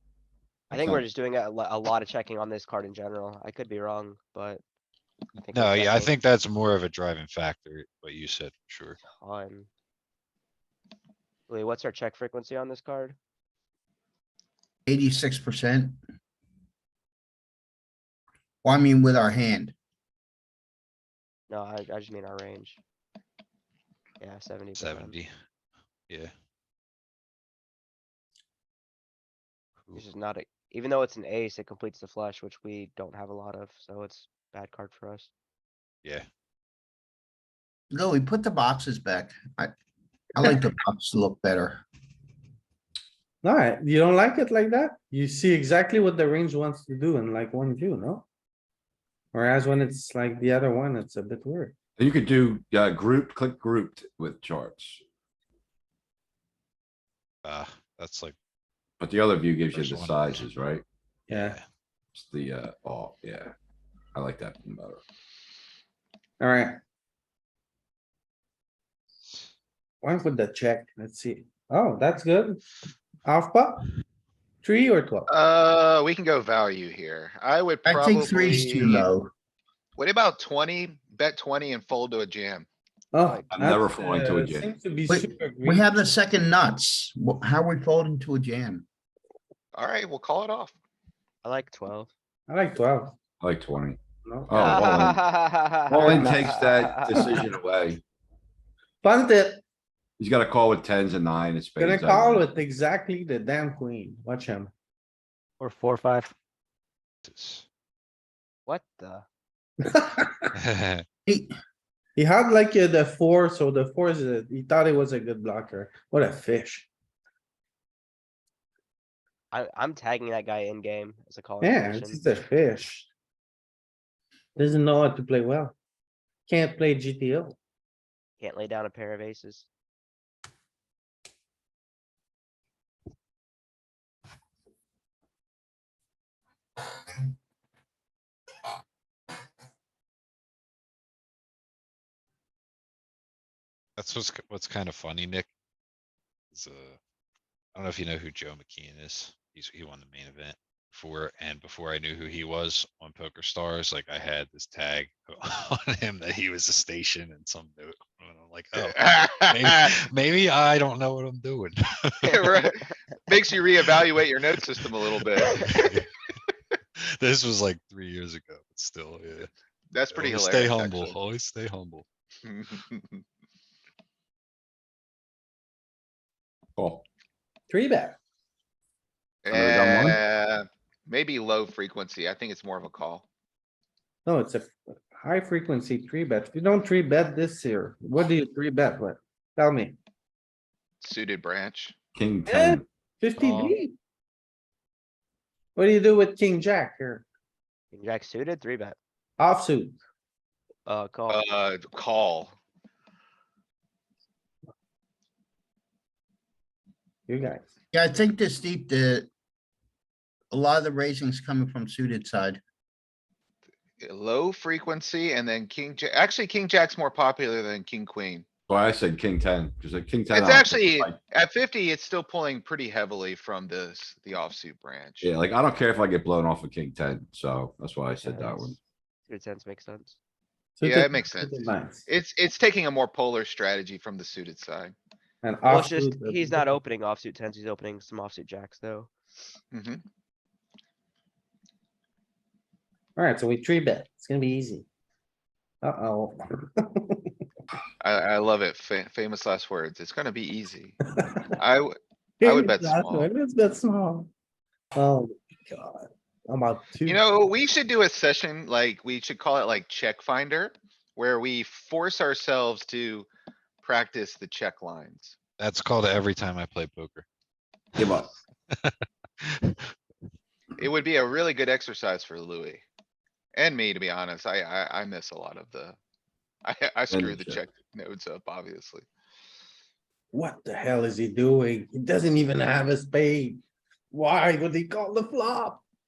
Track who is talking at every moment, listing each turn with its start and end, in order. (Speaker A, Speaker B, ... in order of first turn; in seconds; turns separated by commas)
Speaker A: 0.7-1.0, Speaker B: 0.7-4.6, Speaker B: 5.4-6.2, Speaker C: 5.5-9.0, Speaker B: 9.1-9.7, Speaker B: 11.5-13.2, Speaker D: 14.9-16.0, Speaker D: 18.6-19.7, Speaker B: 21.5-22.8, Speaker B: 24.2-25.2, Speaker C: 24.7-25.3, Speaker B: 29.9-35.3, Speaker D: 37.9-39.7, Speaker D: 40.3-41.8, Speaker E: 43.4-48.2, Speaker E: 49.3-51.7, Speaker A: 52.0-55.0, Speaker C: 57.4-58.4, Speaker A: 59.0-60.8, Speaker C: 59.7-60.4, Speaker C: 61.3-61.6, Speaker E: 61.3-61.6, Speaker A: 62.1-63.5, Speaker A: 64.1-65.0, Speaker E: 66.4-66.8, Speaker E: 70.0-72.6, Speaker E: 73.2-73.9, Speaker E: 74.6-75.3, Speaker F: 75.3-79.1, Speaker D: 77.8-79.3, Speaker F: 80.0-82.7, Speaker E: 83.1-86.1, Speaker B: 83.2-83.5, Speaker A: 83.5-84.7, Speaker D: 85.1-88.8, Speaker F: 89.7-90.7, Speaker B: 91.4-92.1, Speaker E: 92.5-93.2, Speaker A: 93.4-95.3, Speaker E: 94.2-94.9, Speaker B: 94.5-97.5, Speaker A: 95.9-98.0, Speaker E: 99.0-99.6, Speaker A: 100.2-102.5, Speaker E: 101.8-104.7, Speaker C: 107.2-107.6, Speaker B: 108.7-109.2, Speaker E: 109.8-110.5, Speaker C: 110.5-111.0, Speaker D: 111.2-111.5, Speaker E: 112.2-116.9, Speaker B: 119.5-122.3, Speaker E: 121.6-123.1, Speaker E: 124.5-125.8, Speaker E: 126.5-127.5, Speaker B: 128.4-129.7, Speaker C: 144.0-145.5, Speaker C: 146.5-147.0, Speaker C: 147.7-162.3, Speaker F: 158.8-159.9, Speaker F: 162.2-165.9, Speaker C: 165.4-166.1, Speaker C: 167.0-169.5, Speaker F: 169.9-171.2, Speaker C: 170.1-172.1, Speaker F: 172.4-173.2, Speaker A: 176.8-177.0, Speaker E: 177.7-178.2, Speaker F: 179.4-183.2, Speaker A: 179.5-180.2, Speaker E: 184.2-190.0, Speaker F: 191.0-192.0, Speaker A: 192.1-192.8, Speaker E: 192.5-193.9, Speaker B: 193.4-193.8, Speaker E: 195.7-197.2, Speaker B: 197.9-199.0, Speaker E: 199.4-200.0, Speaker B: 200.8-201.4, Speaker F: 201.3-202.5, Speaker E: 207.3-207.7, Speaker D: 207.9-209.3, Speaker D: 210.5-212.6, Speaker F: 214.0-218.5, Speaker A: 218.7-221.2, Speaker F: 220.3-225.3, Speaker A: 225.2-228.8, Speaker B: 228.2-230.2, Speaker E: 230.8-232.1, Speaker F: 230.8-234.9, Speaker E: 235.4-236.8, Speaker B: 235.7-239.1, Speaker F: 239.7-240.0, Speaker E: 243.2-244.8, Speaker E: 245.8-247.3, Speaker F: 248.0-251.0, Speaker F: 251.5-253.3, Speaker E: 252.4-254.3, Speaker E: 254.9-257.2, Speaker F: 257.0-263.3, Speaker F: 263.8-265.4, Speaker C: 265.6-267.2, Speaker A: 268.0-268.3, Speaker C: 269.4-269.9, Speaker F: 270.8-272.8, Speaker F: 273.6-276.0, Speaker F: 276.6-279.1, Speaker A: 277.1-277.6, Speaker E: 280.3-285.8